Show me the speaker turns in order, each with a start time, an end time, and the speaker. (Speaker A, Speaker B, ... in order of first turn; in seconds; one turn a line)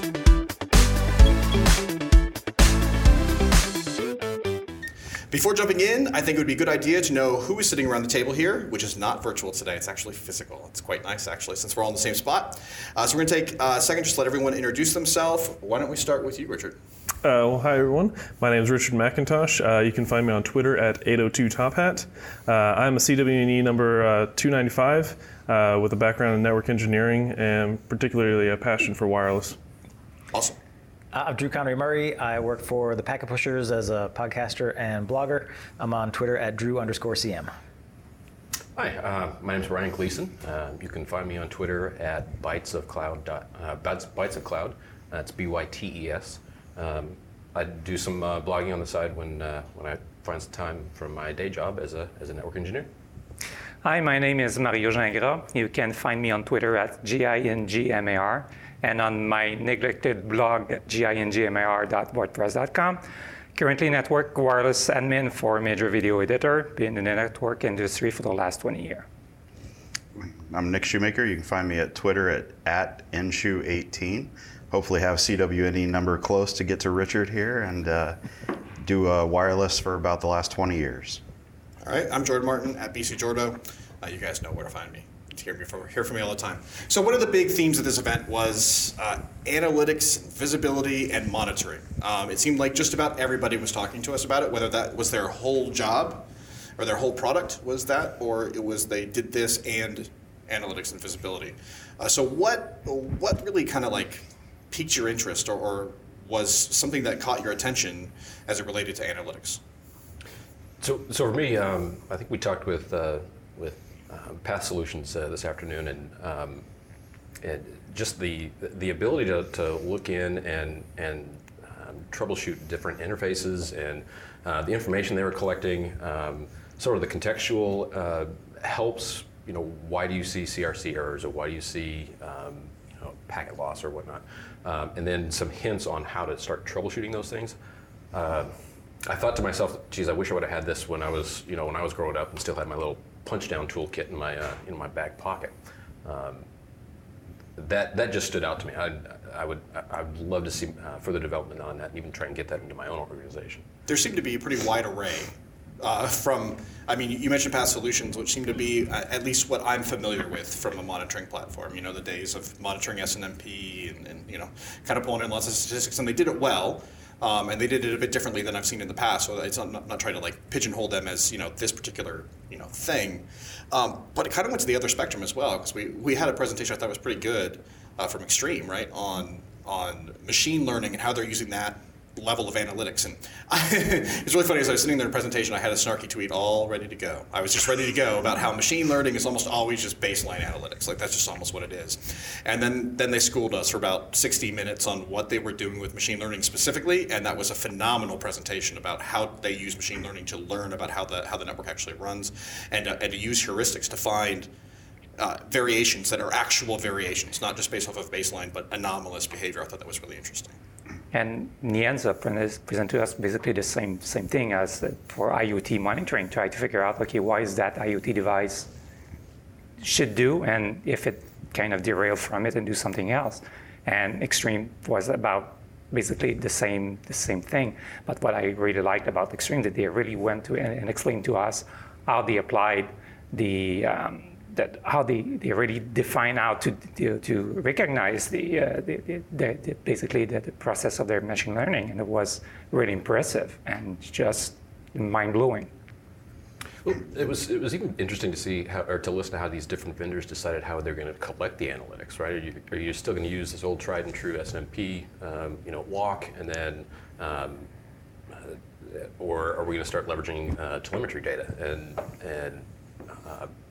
Speaker A: 5.3-16.8
Speaker B: 17.2-29.6
Speaker C: 31.1-37.5
Speaker D: 38.8-52.9
Speaker E: 53.8-63.0
Speaker E: 63.5-69.1
Speaker F: 70.2-78.2
Speaker F: 78.8-81.2
Speaker A: 81.8-109.6
Speaker D: 110.8-116.6
Speaker D: 117.4-137.6
Speaker D: 138.1-138.6
Speaker D: 139.1-145.5
Speaker D: 146.1-146.5
Speaker D: 147.6-153.7
Speaker A: 153.9-204.5
Speaker A: 205.2-210.6
Speaker E: 211.1-218.7
Speaker E: 219.8-245.7
Speaker D: 246.8-257.7
Speaker D: 258.3-263.5